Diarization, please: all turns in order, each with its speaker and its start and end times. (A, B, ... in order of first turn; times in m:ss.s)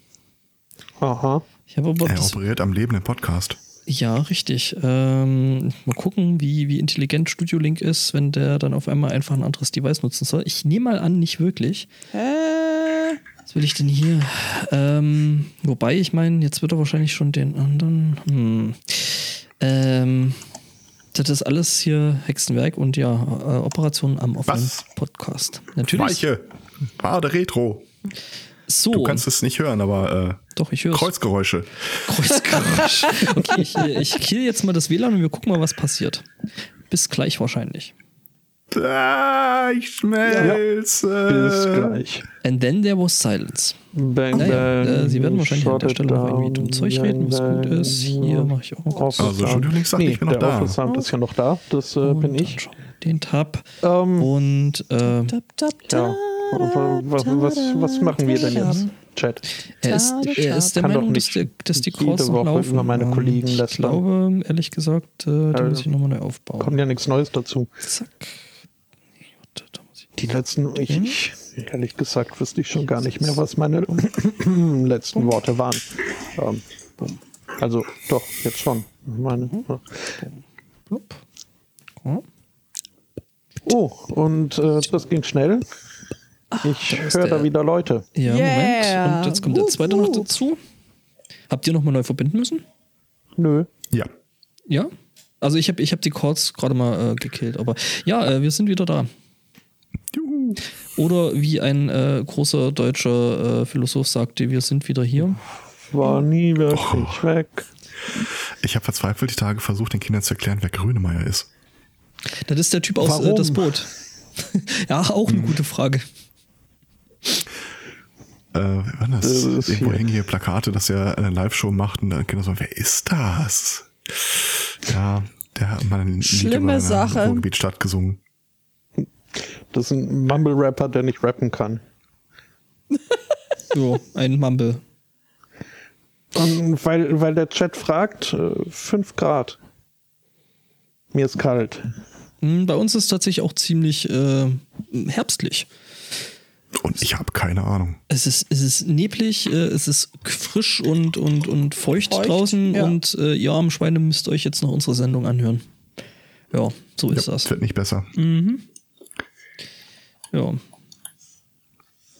0:01.0-0:01.4 A
0:01.7-0:02.4 B
0:02.0-0:03.6 C
0:03.9-0:11.9 B
0:12.1-0:13.2 D
0:13.5-0:20.4 B
0:21.1-0:26.2 B
0:24.4-0:24.8 C
0:25.8-0:27.9 C
0:28.7-0:29.2 B
0:28.9-0:33.0 C
0:30.6-0:31.1 B
0:32.0-0:36.2 B
0:36.9-0:37.9 B
0:38.7-0:42.0 C
0:40.4-0:40.6 A
0:41.2-0:42.2 A
0:42.4-0:43.8 B
0:43.9-0:52.6 A
0:44.3-0:49.6 B
0:49.2-0:50.8 C
0:52.0-0:55.3 B
0:53.8-0:54.3 A
0:55.1-0:58.8 D
0:55.9-0:59.4 A
0:58.6-0:58.9 B
0:59.8-1:06.8 B
0:59.8-1:00.8 D
1:00.3-1:04.0 A
1:05.5-1:05.9 A
1:06.6-1:07.7 A
1:07.8-1:08.3 B
1:09.5-1:10.1 B
1:10.2-1:16.6 A
1:10.9-1:11.2 B
1:17.6-1:20.1 A
1:20.9-1:21.2 B
1:23.6-1:25.6 A
1:26.6-1:28.1 A
1:26.8-1:27.5 B
1:28.1-1:30.6 B
1:28.2-1:30.3 D
1:31.5-1:32.6 B
1:33.4-1:33.7 A
1:34.7-1:39.1 B
1:40.1-1:40.6 C
1:41.0-1:45.4 B
1:45.9-1:47.7 A
1:46.7-1:47.2 C
1:48.6-1:51.5 C
1:52.4-1:56.0 B
1:53.0-1:53.8 A
1:55.3-1:55.6 C
1:58.5-2:08.2 C
1:59.2-2:00.0 A
2:06.2-2:07.4 D
2:09.0-2:11.8 A
2:13.7-2:14.8 B
2:16.3-2:19.6 A
2:21.1-2:21.9 A
2:22.4-2:25.7 B
2:26.8-2:28.0 C
2:28.1-2:35.6 B
2:32.1-2:33.0 D
2:36.5-2:37.5 B
2:37.1-2:38.1 C
2:38.1-2:38.6 B
2:40.3-2:40.6 B